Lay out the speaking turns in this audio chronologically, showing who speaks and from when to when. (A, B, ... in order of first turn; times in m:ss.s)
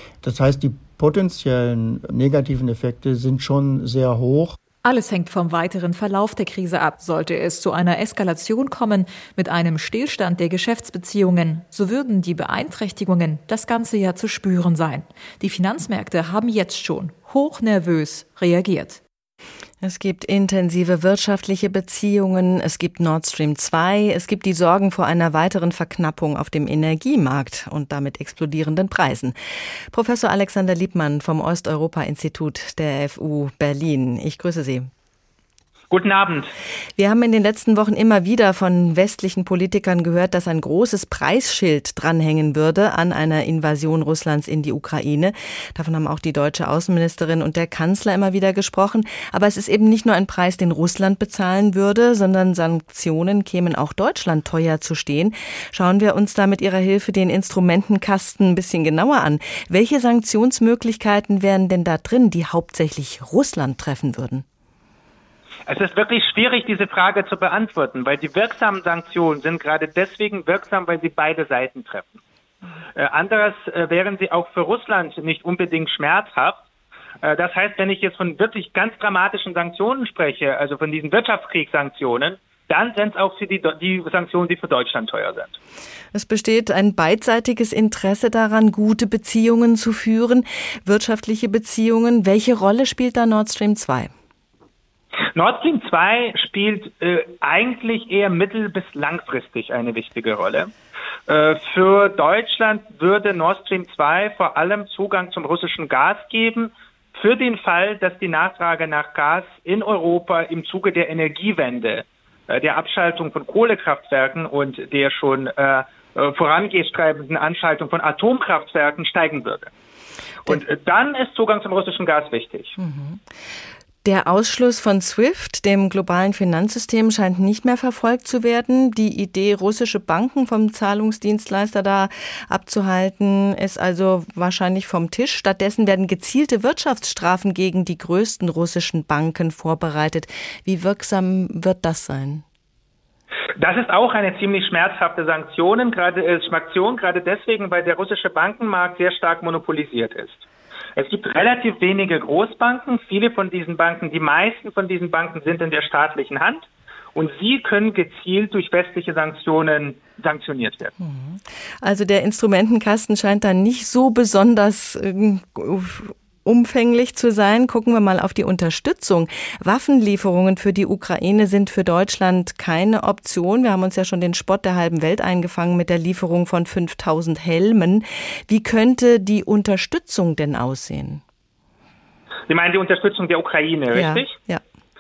0:00.2-0:04.6 A
0:04.8-0:19.0 B
0:19.8-0:29.4 C
0:29.9-0:34.9 C
0:35.9-0:36.5 D
0:37.0-1:04.4 C
1:05.7-1:12.2 D
1:13.0-1:16.6 D
1:17.2-1:25.6 D
1:26.1-1:34.1 C
1:35.4-1:40.7 D
1:41.3-1:59.7 D
2:00.5-2:02.8 D
2:02.8-2:03.2 C
2:04.0-2:22.4 C
2:23.6-2:40.9 D
2:41.0-3:01.2 C
3:02.5-3:04.3 D
3:03.9-3:04.6 C